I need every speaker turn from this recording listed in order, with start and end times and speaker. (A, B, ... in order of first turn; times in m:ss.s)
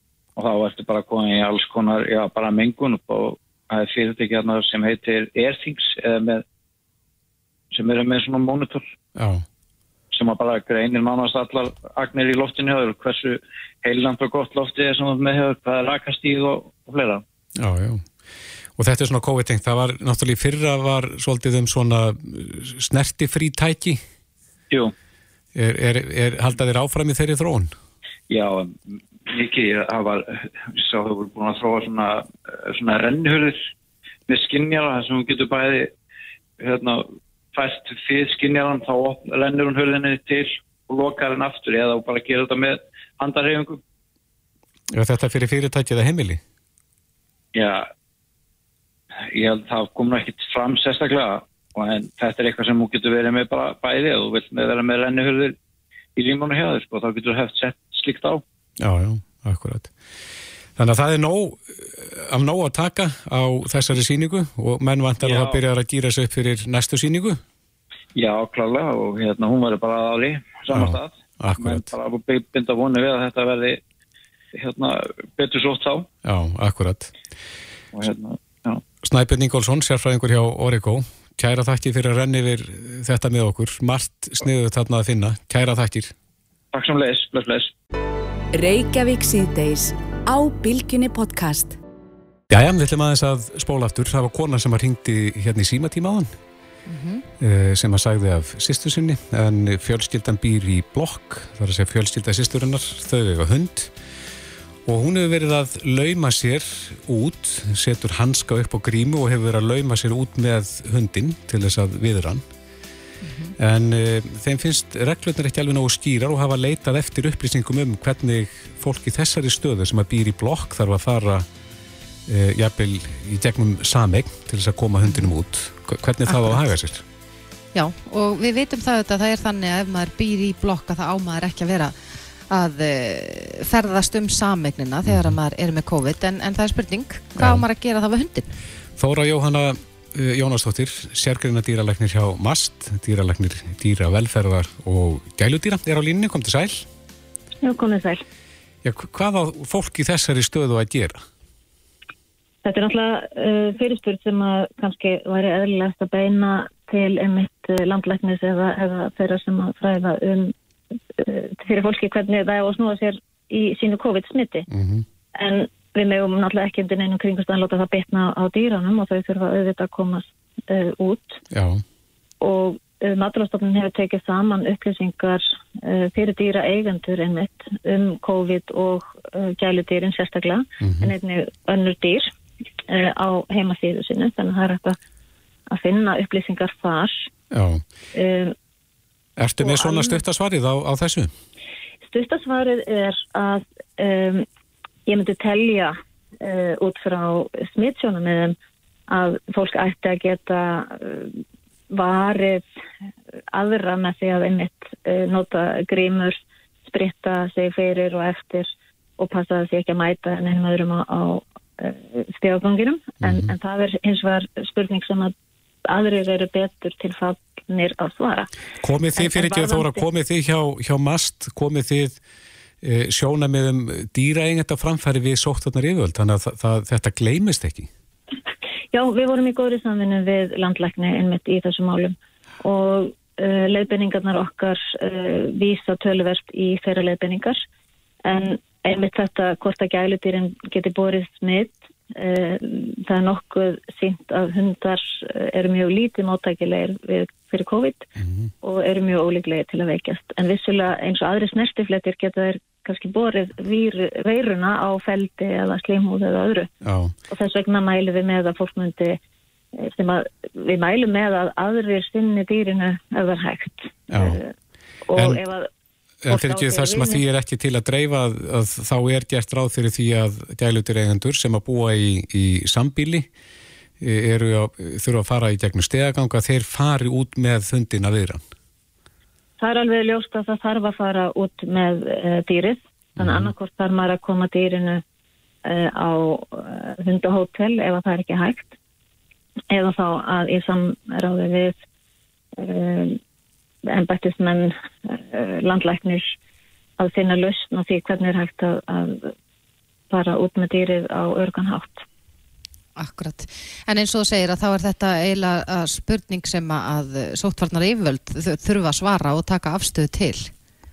0:00.4-0:06.4 A
0:07.7-0:08.9 A
0:09.2-0:09.4 B
0:10.1-0:17.2 A
0:17.6-0:18.1 B
0:18.8-0:24.0 B
0:25.5-0:27.7 B
0:28.3-0:33.7 A
0:34.3-0:35.9 A
0:36.6-0:43.8 A
0:44.9-0:46.4 B
0:47.5-0:47.9 A
0:49.3-0:55.6 A
0:56.2-0:58.4 A
0:58.8-0:59.9 B
1:00.8-1:07.4 B
1:05.2-1:05.6 A
1:08.1-1:13.8 A
1:10.7-1:11.9 B
1:14.5-1:16.1 A
1:16.2-1:17.1 B
1:17.9-1:18.8 A
1:19.0-1:26.1 B
1:26.7-1:27.7 A
1:28.5-1:31.8 C
1:32.5-1:36.3 B
1:36.9-1:37.2 D
1:37.4-1:43.9 B
1:44.8-1:52.4 B
1:53.2-1:53.5 D
1:53.6-2:01.4 B
2:02.3-2:07.0 B
2:06.3-2:06.6 D
2:07.7-2:11.9 D
2:12.5-2:18.5 D
2:15.1-2:15.4 B
2:17.4-2:17.6 B
2:19.0-2:26.9 B
2:27.6-2:28.2 E
2:28.8-2:31.2 B
2:32.6-2:40.5 E
2:41.2-2:44.7 E
2:44.7-2:45.0 B
2:45.3-2:51.4 E
2:51.5-2:51.8 B
2:52.4-3:02.3 E
3:00.8-3:01.1 B
3:02.9-3:05.0 E
3:05.7-3:07.3 E
3:07.5-3:07.8 B
3:08.1-3:08.5 E
3:09.4-3:11.3 B
3:09.6-3:10.2 E
3:12.0-3:14.4 E
3:15.1-3:18.6 E
3:19.1-3:21.4 E
3:21.9-3:22.6 E
3:23.5-3:35.3 E
3:33.2-3:33.5 B
3:35.8-3:38.5 E
3:38.8-3:42.2 B
3:39.2-3:40.0 E
3:42.8-3:47.9 B
3:48.9-3:57.6 E
3:58.2-4:08.1 E
4:08.2-4:08.5 B
4:08.6-4:16.7 E
4:16.8-4:17.1 B
4:17.3-4:19.2 E
4:19.8-4:24.5 E
4:24.1-4:24.4 B
4:25.1-4:25.7 E
4:26.2-4:33.3 B
4:26.3-4:27.2 E
4:34.0-4:38.4 B
4:39.6-4:45.0 E
4:43.2-4:43.5 B
4:45.7-4:48.8 E
4:49.7-4:51.8 E
4:52.6-4:53.2 E
4:53.9-4:56.4 E
4:57.0-4:59.3 E
5:00.1-5:02.0 E
5:03.0-5:10.5 D